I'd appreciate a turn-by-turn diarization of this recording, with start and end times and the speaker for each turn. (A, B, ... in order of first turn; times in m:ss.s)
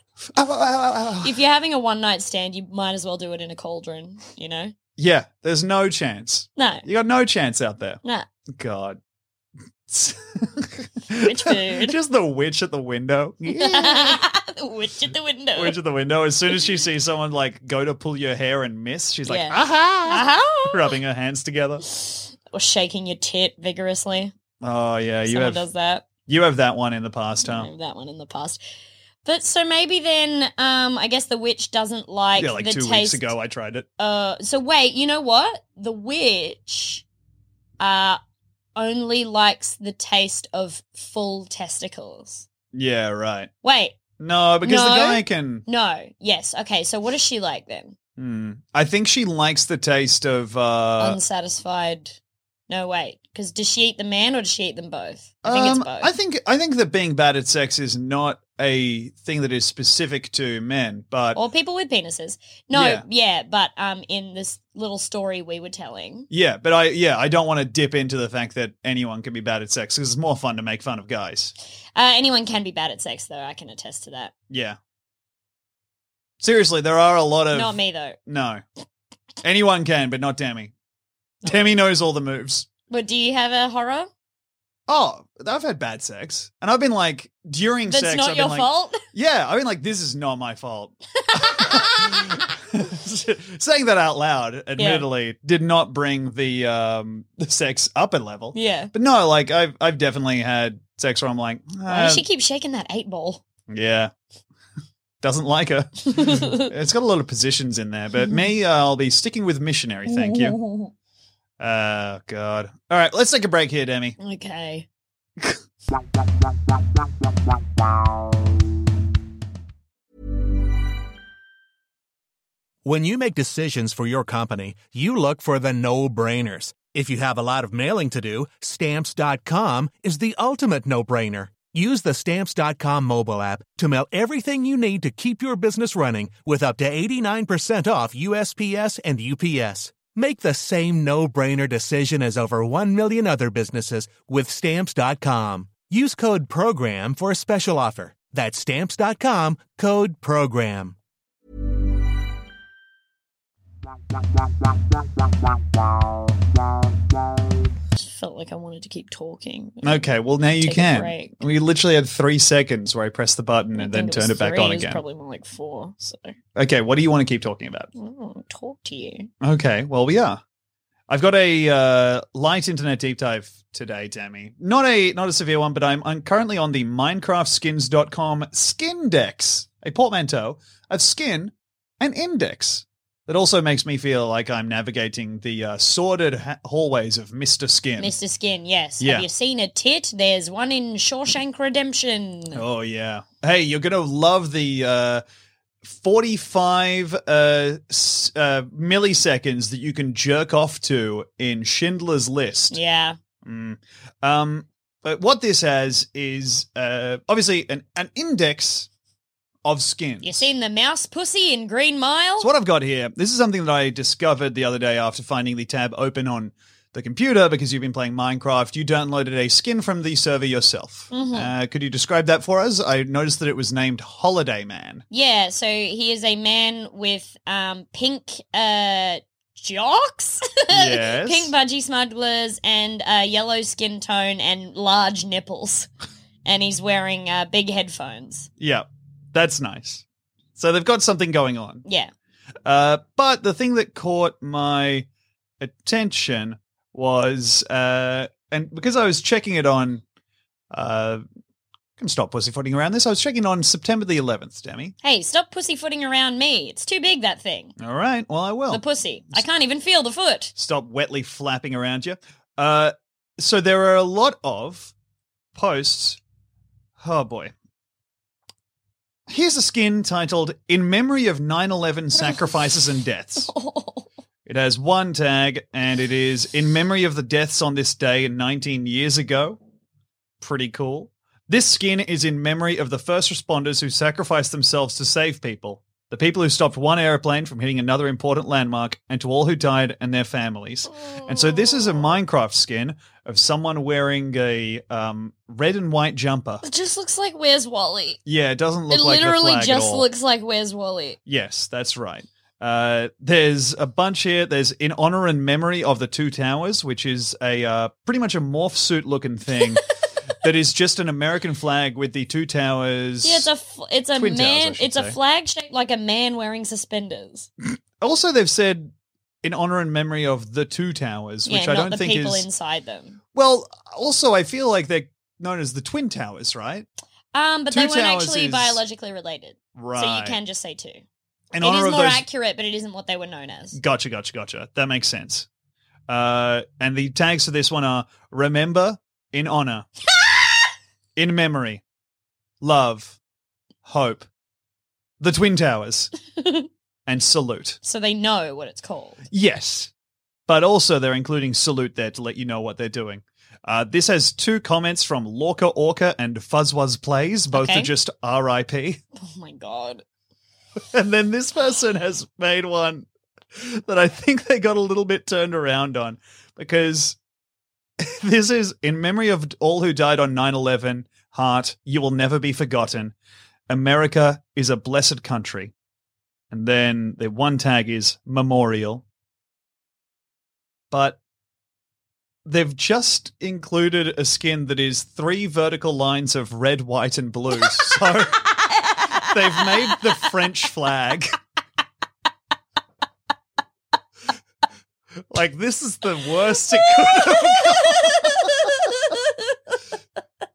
0:00.4-0:01.4 A
0:01.2-0:04.7 B
0:05.0-0:08.0 A
0:06.6-0:06.8 B
0:08.5-0:09.0 A
0:09.9-0:14.2 A
0:11.2-0:12.0 B
0:13.5-0:15.8 B
0:15.6-0:21.8 A
0:19.3-0:21.0 B
0:21.9-0:24.3 B
0:24.6-0:25.7 A
0:25.3-0:26.1 B
0:26.3-0:27.7 A
0:27.4-0:28.6 B
0:29.2-0:33.3 B
0:32.4-0:33.9 A
0:34.0-0:37.0 B
0:37.8-0:38.2 B
0:38.8-0:42.5 B
0:42.7-0:43.5 A
0:43.6-0:44.0 B
0:44.2-0:45.6 A
0:44.6-0:48.0 B
0:48.2-0:51.2 A
0:51.0-0:52.2 B
0:52.7-0:56.1 B
0:55.4-1:01.4 A
1:01.4-1:06.3 B
1:02.7-1:03.0 A
1:06.3-1:11.5 A
1:12.0-1:14.3 B
1:14.5-1:14.8 A
1:16.4-1:18.6 A
1:17.5-1:18.2 B
1:19.4-1:20.7 A
1:21.4-1:21.8 B
1:21.4-1:22.7 A
1:22.9-1:24.1 B
1:24.9-1:42.2 A
1:27.9-1:29.0 B
1:31.2-1:32.4 B
1:34.8-1:35.0 B
1:38.5-1:38.9 B
1:41.9-1:43.4 B
1:43.7-1:44.1 A
1:45.2-1:50.6 A
1:46.1-1:46.7 B
1:50.1-1:50.9 B
1:51.6-1:54.2 A
1:54.2-1:54.9 B
2:02.8-2:31.0 C
2:38.0-2:40.0 B
2:39.8-2:45.0 A
2:40.6-2:41.4 B
2:43.8-2:46.4 B
2:46.6-2:47.9 A
2:48.0-2:49.3 B
2:49.4-2:50.4 A
2:51.1-3:08.1 A
3:08.0-3:12.6 B
3:09.0-3:09.3 A
3:12.5-3:15.2 A
3:15.8-3:22.8 A
3:22.7-3:23.2 B
3:23.4-3:28.9 A
3:29.6-3:30.5 A
3:30.2-3:32.5 B
3:32.4-3:45.0 A
3:41.1-3:41.5 B
3:45.1-3:55.9 B
3:50.7-3:51.5 A
3:56.4-3:58.5 B
3:58.6-4:00.0 A
4:00.6-4:01.8 A
4:01.8-4:02.1 B
4:02.7-4:05.1 A
4:05.6-4:10.0 A
4:10.7-4:11.2 A
4:12.0-4:14.9 A
4:15.0-4:17.8 B
4:17.8-4:19.4 A
4:18.7-4:20.5 B
4:20.6-4:24.9 A
4:25.6-4:26.2 A
4:27.0-4:27.5 A
4:29.3-4:33.5 A
4:32.2-4:32.5 B
4:33.4-4:34.1 B
4:34.5-4:39.6 A
4:40.4-4:56.6 A
4:50.9-4:52.2 B
4:56.6-4:58.2 B
4:58.2-5:00.0 A
4:58.9-5:01.2 B
5:01.3-5:09.9 A
5:10.4-5:13.5 A
5:13.2-5:17.5 B
5:14.1-5:15.2 A
5:18.0-5:18.9 A
5:19.4-5:22.5 A
5:21.5-5:23.2 B
5:23.3-5:26.9 A
5:27.3-5:31.0 B
5:27.7-5:28.8 A
5:29.8-5:30.4 A
5:31.5-5:32.2 A
5:31.6-5:33.8 B
5:33.7-5:35.5 A
5:36.1-5:39.9 A
5:41.2-5:41.8 A
5:42.6-5:43.2 A
5:43.8-5:44.3 A
5:45.2-5:46.1 A
5:46.4-5:46.7 B
5:47.1-5:47.8 A
5:47.8-5:49.2 B
5:49.3-5:49.9 A
5:50.5-5:59.0 A
5:57.5-5:57.9 B
5:59.2-6:00.0 B
6:00.9-6:07.2 A
6:08.0-6:13.2 A
6:13.7-6:15.7 A
6:16.5-6:19.0 A
6:20.9-6:21.2 A
6:22.4-6:28.5 A
6:27.6-6:29.9 B
6:29.1-6:31.4 A
6:35.3-6:38.9 A
6:36.7-6:39.8 B